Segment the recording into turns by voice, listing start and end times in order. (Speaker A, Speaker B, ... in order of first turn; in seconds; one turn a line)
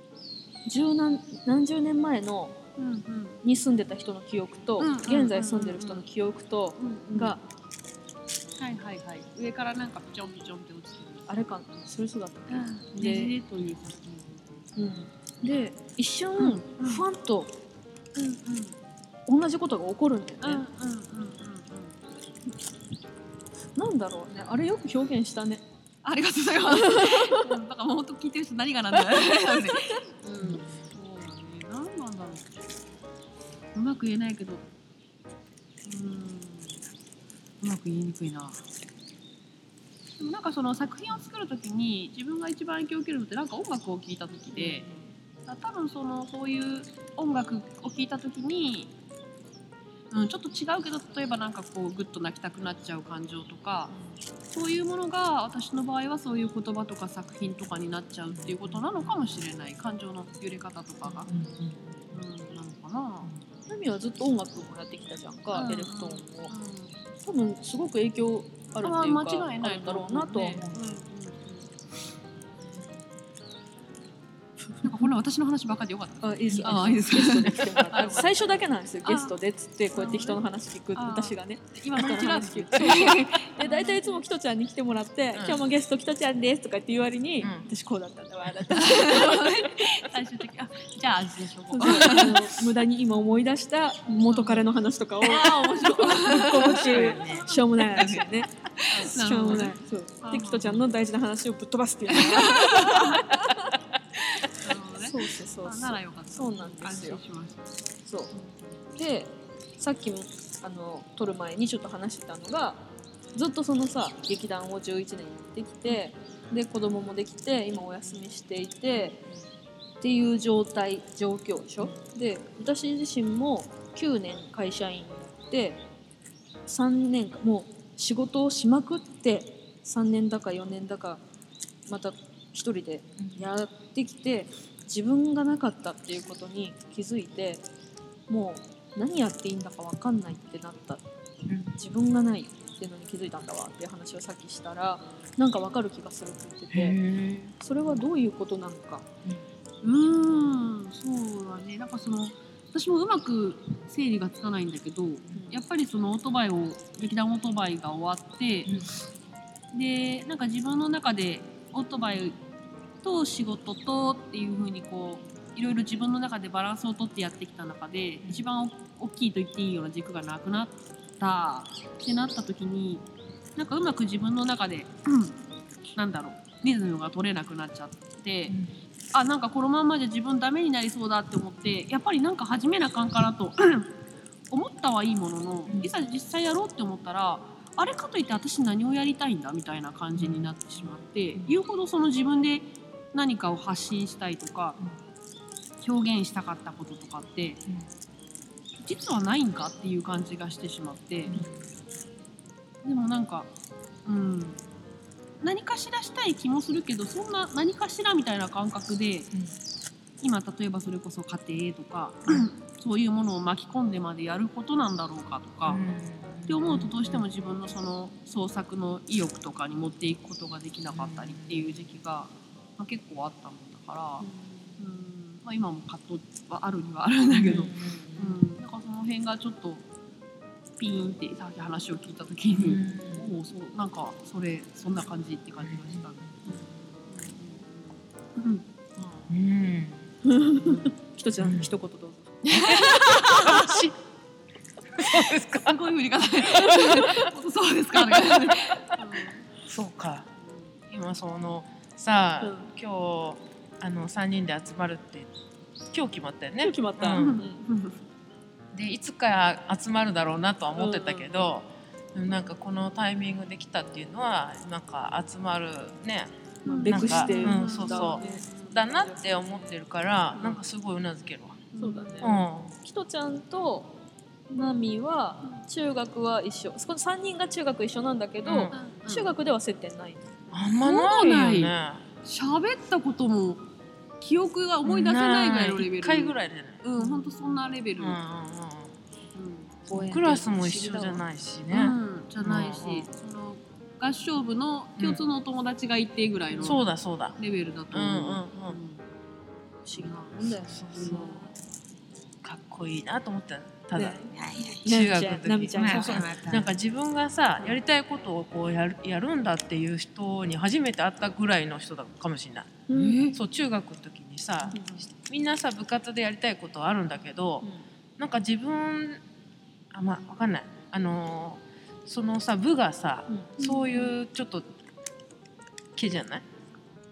Speaker A: 0.7-2.6
Speaker B: 2.8-3.4
Speaker A: 3.4-7.4
Speaker B: 4.8-6.0
Speaker B: 6.8-7.4
Speaker B: 8.6-11.3
Speaker A: 11.3-13.3
Speaker B: 12.5-14.3
Speaker A: 14.8-17.6
Speaker B: 16.4-17.1
Speaker B: 18.1-18.8
Speaker A: 19.3-20.6
Speaker B: 20.4-21.9
Speaker A: 23.8-25.6
Speaker B: 26.0-32.6
Speaker A: 26.6-27.5
Speaker C: 30.4-30.7
Speaker B: 33.7-34.6
Speaker B: 35.8-36.8
Speaker B: 37.6-38.6
Speaker B: 40.2-48.9
Speaker A: 44.5-45.1
Speaker B: 50.1-53.9
Speaker A: 53.9-54.2
Speaker B: 54.5-61.3
Speaker C: 61.3-61.9
Speaker B: 62.1-63.3
Speaker A: 63.7-66.5
Speaker B: 65.5-67.0
Speaker A: 67.2-70.8
Speaker B: 68.8-71.7
Speaker B: 74.8-79.3
Speaker A: 76.2-89.7
Speaker B: 79.9-80.4
Speaker B: 80.9-84.2
Speaker C: 87.4-87.7
Speaker B: 88.7-92.5
Speaker A: 91.7-103.8
Speaker C: 92.0-92.3
Speaker B: 94.3-94.7
Speaker B: 95.2-100.8
Speaker C: 96.0-97.5
Speaker C: 98.9-99.6
Speaker B: 102.1-103.3
Speaker B: 104.5-107.7
Speaker A: 104.9-107.2
Speaker A: 108.0-108.3
Speaker A: 108.9-119.2
Speaker A: 120.0-125.8
Speaker A: 126.7-131.2
Speaker A: 131.9-137.6
Speaker C: 133.2-133.4
Speaker A: 138.3-141.0
Speaker C: 141.5-141.7
Speaker A: 141.7-147.0
Speaker C: 146.7-147.6
Speaker A: 147.6-149.1
Speaker B: 149.8-158.9
Speaker A: 155.3-155.6
Speaker B: 159.7-162.3
Speaker B: 163.0-173.0
Speaker B: 173.6-175.4
Speaker B: 175.9-178.6
Speaker C: 178.5-178.7
Speaker B: 179.1-183.9
Speaker B: 184.5-194.8
Speaker C: 190.2-190.6
Speaker B: 195.8-197.6
Speaker B: 198.8-201.4
Speaker C: 201.3-201.6
Speaker B: 202.8-203.5
Speaker B: 204.1-204.6
Speaker B: 205.4-209.3
Speaker B: 210.2-215.9
Speaker C: 215.6-217.3
Speaker B: 216.5-224.3
Speaker C: 220.9-221.7
Speaker A: 224.2-224.8
Speaker B: 224.8-229.8
Speaker C: 227.3-228.4
Speaker B: 230.8-238.6
Speaker C: 232.5-233.3
Speaker C: 235.6-236.1
Speaker A: 239.0-239.3
Speaker C: 239.3-240.1
Speaker A: 240.2-242.4
Speaker C: 241.4-241.7
Speaker B: 242.4-243.8
Speaker C: 242.5-243.9
Speaker C: 245.0-245.8
Speaker B: 245.0-249.5
Speaker C: 246.4-247.3
Speaker C: 248.0-249.0
Speaker C: 249.7-250.3
Speaker B: 250.4-250.7
Speaker C: 250.9-255.3
Speaker A: 252.4-252.7
Speaker C: 255.9-257.4
Speaker A: 256.6-257.6
Speaker B: 257.1-258.0
Speaker C: 258.7-266.3
Speaker A: 260.8-261.5
Speaker B: 266.6-269.0
Speaker A: 266.6-269.6
Speaker C: 266.8-271.6
Speaker A: 270.3-270.6
Speaker B: 271.7-272.4
Speaker A: 271.8-273.9
Speaker C: 272.2-272.7
Speaker A: 274.5-280.5
Speaker C: 278.4-278.8
Speaker B: 278.7-279.4
Speaker C: 280.5-282.1
Speaker B: 280.8-283.7
Speaker B: 284.2-288.2
Speaker C: 284.8-286.9
Speaker C: 287.9-289.0
Speaker B: 289.3-290.3
Speaker A: 289.9-291.2
Speaker C: 289.9-293.1
Speaker B: 291.7-296.9
Speaker C: 296.6-297.4
Speaker B: 297.4-299.0
Speaker C: 297.9-298.8
Speaker A: 299.9-300.9
Speaker B: 299.9-301.5
Speaker C: 300.6-301.5
Speaker C: 302.4-317.7
Speaker A: 303.9-306.5
Speaker B: 305.8-306.5
Speaker A: 312.9-313.3
Speaker A: 314.7-315.0
Speaker C: 318.2-319.2
Speaker C: 319.9-324.7
Speaker A: 323.3-323.7
Speaker B: 323.6-324.1
Speaker C: 325.9-326.4